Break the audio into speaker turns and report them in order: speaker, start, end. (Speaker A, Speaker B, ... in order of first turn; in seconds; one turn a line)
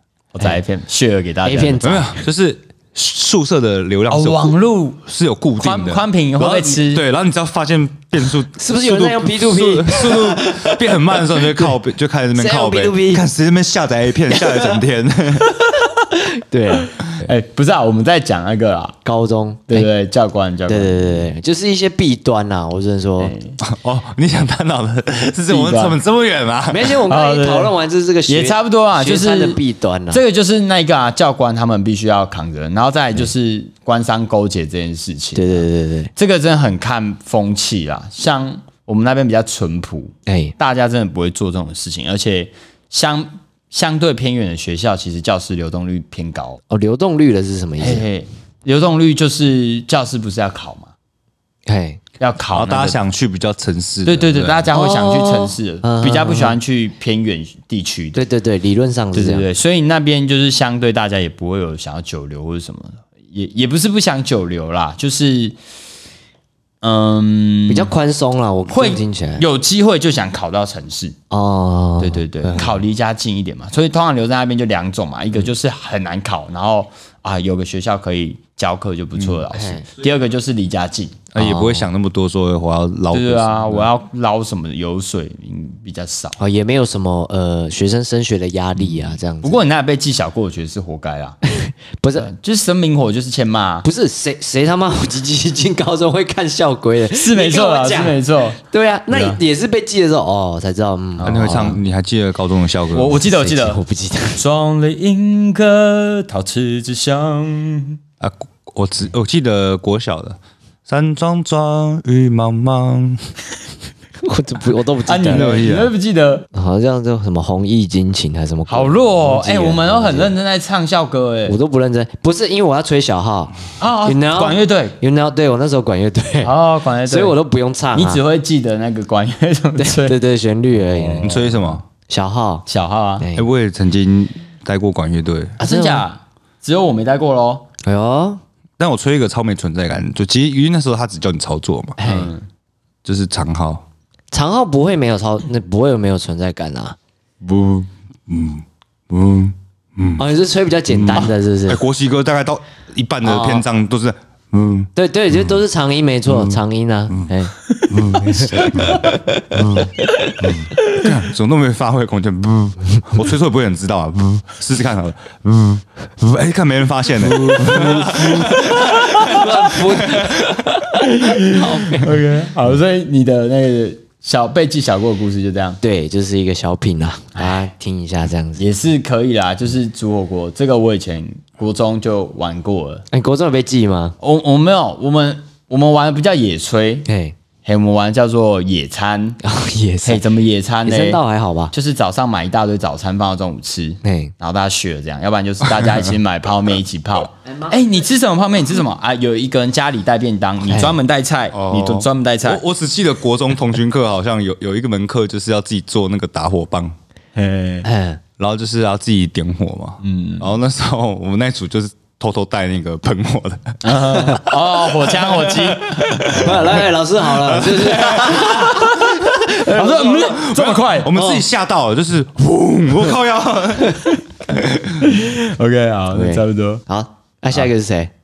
Speaker A: 0.3-1.8
Speaker B: 1.4-2.2
Speaker C: 1.8-6.0
Speaker A: 4.1-5.0
Speaker A: 5.6-7.0
Speaker B: 6.4-6.7
Speaker C: 6.8-15.6
Speaker B: 8.6-11.7
Speaker B: 12.4-13.2
Speaker B: 14.3-14.8
Speaker B: 15.8-17.3
Speaker A: 16.7-19.0
Speaker B: 19.1-19.9
Speaker A: 19.7-21.3
Speaker B: 20.7-23.4
Speaker A: 23.2-23.6
Speaker C: 23.6-27.0
Speaker A: 25.5-26.0
Speaker B: 26.7-30.2
Speaker A: 27.1-27.7
Speaker A: 28.3-29.6
Speaker A: 30.1-46.6
Speaker B: 35.4-36.1
Speaker B: 40.3-40.5
Speaker B: 46.7-48.0
Speaker A: 47.8-50.9
Speaker B: 51.7-52.0
Speaker A: 52.2-53.0
Speaker C: 52.5-54.7
Speaker A: 54.0-58.2
Speaker B: 54.7-56.6
Speaker B: 58.1-59.5
Speaker A: 59.1-65.6
Speaker A: 66.8-67.9
Speaker B: 67.7-69.4
Speaker A: 68.7-71.2
Speaker B: 71.3-72.8
Speaker A: 72.0-81.2
Speaker B: 79.3-79.9
Speaker C: 81.3-83.9
Speaker B: 81.3-81.9
Speaker A: 83.1-86.4
Speaker B: 86.4-89.6
Speaker A: 88.8-91.4
Speaker B: 91.5-92.3
Speaker A: 92.2-93.9
Speaker B: 93.8-101.8
Speaker A: 97.1-99.4
Speaker C: 101.2-103.2
Speaker A: 102.9-103.8
Speaker B: 103.3-104.4
Speaker A: 104.4-108.0
Speaker C: 108.2-113.2
Speaker B: 114.2-115.6
Speaker A: 115.1-116.5
Speaker C: 115.3-115.9
Speaker B: 116.5-120.3
Speaker A: 118.7-121.6
Speaker B: 121.5-128.2
Speaker A: 123.8-125.0
Speaker A: 126.4-127.4
Speaker A: 127.9-130.2
Speaker B: 129.8-131.5
Speaker A: 130.7-131.8
Speaker C: 131.2-131.8
Speaker B: 132.1-132.7
Speaker A: 132.7-133.3
Speaker B: 133.2-133.5
Speaker C: 133.3-135.6
Speaker B: 135.6-136.1
Speaker A: 135.6-137.7
Speaker B: 137.8-138.4
Speaker C: 138.8-142.0
Speaker B: 142.0-142.3
Speaker A: 142.0-142.4
Speaker C: 143.1-143.8
Speaker B: 144.3-147.0
Speaker C: 147.4-150.2
Speaker B: 150.2-151.8
Speaker C: 150.9-155.6
Speaker B: 153.2-153.7
Speaker B: 155.0-157.6
Speaker C: 156.3-156.6
Speaker C: 157.9-170.6
Speaker B: 158.1-159.6
Speaker B: 167.2-172.2
Speaker A: 168.4-170.2
Speaker A: 170.8-175.8
Speaker B: 175.8-178.6
Speaker A: 177.3-177.7
Speaker A: 178.6-183.1
Speaker B: 183.1-184.2
Speaker A: 184.2-187.1
Speaker B: 187.1-187.3
Speaker A: 187.6-189.4
Speaker B: 189.4-190.2
Speaker A: 190.0-191.2
Speaker B: 190.8-191.7
Speaker A: 191.7-202.6
Speaker B: 194.0-194.3
Speaker B: 200.7-201.0
Speaker C: 201.5-206.9
Speaker A: 207.3-207.9
Speaker B: 207.8-208.2
Speaker C: 208.4-214.5
Speaker A: 210.0-210.5
Speaker A: 213.8-216.8
Speaker C: 215.2-218.7
Speaker B: 216.3-220.4
Speaker A: 218.0-221.1
Speaker C: 220.3-225.1
Speaker B: 221.1-221.4
Speaker A: 225.0-226.8
Speaker B: 226.1-228.1